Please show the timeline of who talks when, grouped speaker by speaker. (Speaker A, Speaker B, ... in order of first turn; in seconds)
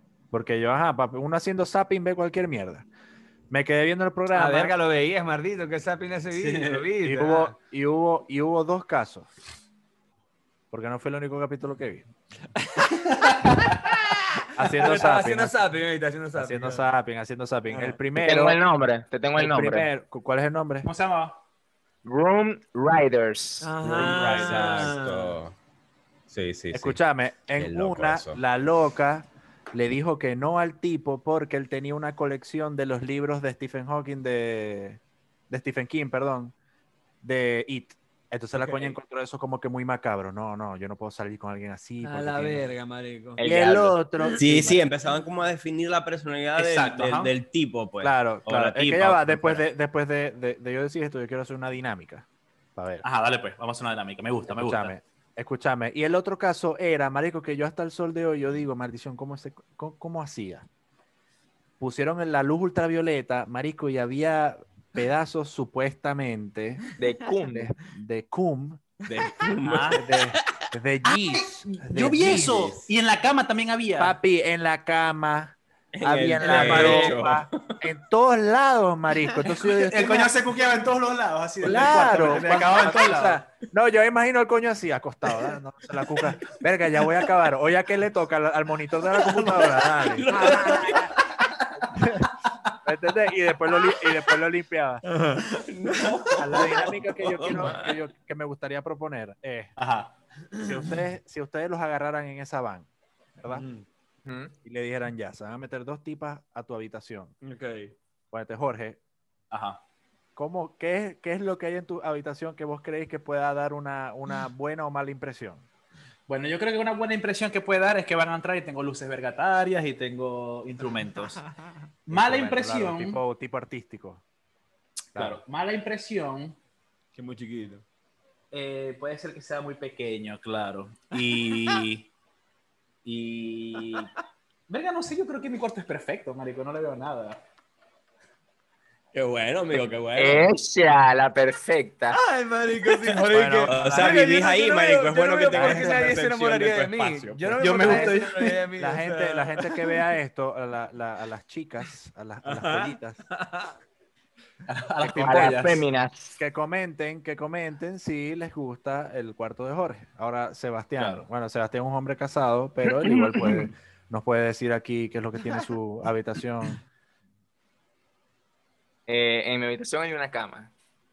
Speaker A: 0.3-2.9, 3.5-4.7, 7.0-9.3, 10.7-12.1, 14.6-15.6, 16.4-18.6, 19.4-20.9, 26.7-36.5, 37.2-42.6, 43.4-44.8, 48.0-53.0, 54.5-60.6, 61.8-66.8, 67.5-68.8, 69.9-72.8, 74.0-80.3, 81.6-91.0, 91.9-92.3, 92.8-95.0, 96.4-99.7, 100.6-102.9, 103.4-103.7, 104.6-107.3, 108.3-109.0, 110.3-115.7, 122.1-124.2, 125.1-125.4, 143.2-144.2, 145.5-146.1, 147.8-148.1, 148.8-153.2, 155.0-155.6, 156.3-166.8
Speaker B: 4.3-7.5, 12.6-16.9, 17.7-18.0, 23.6-25.4, 38.6-38.9, 42.0-43.4, 76.4-77.1, 95.0-95.5, 103.5-103.8, 107.4-107.9, 127.1-127.8, 131.5-131.8, 142.1-150.0, 152.4-153.7
Speaker C: 6.3-6.9, 13.2-13.8, 20.8-21.4, 24.0-24.8, 46.6-47.3, 53.0-54.9, 69.6-70.0, 71.0-74.2, 79.7-83.4, 90.3-91.1, 99.8-100.8, 109.5-109.8, 116.3-121.4, 122.1-123.2, 125.1-126.5, 128.5-132.1, 133.0-134.1, 134.7-137.4, 147.6-148.6, 154.7-155.8, 161.0-161.2
Speaker D: 18.2-19.9, 22.0-23.7, 43.4-44.0, 67.0-67.7, 104.2-104.5, 140.2-142.2, 155.2-156.4, 163.3-163.6, 169.1-170.7
Speaker E: 23.8-25.6, 26.3-27.0, 27.6-28.4, 44.3-49.5, 69.1-70.0, 75.9-77.8, 89.3-91.2, 95.4-98.0, 139.1-140.5, 143.7-147.7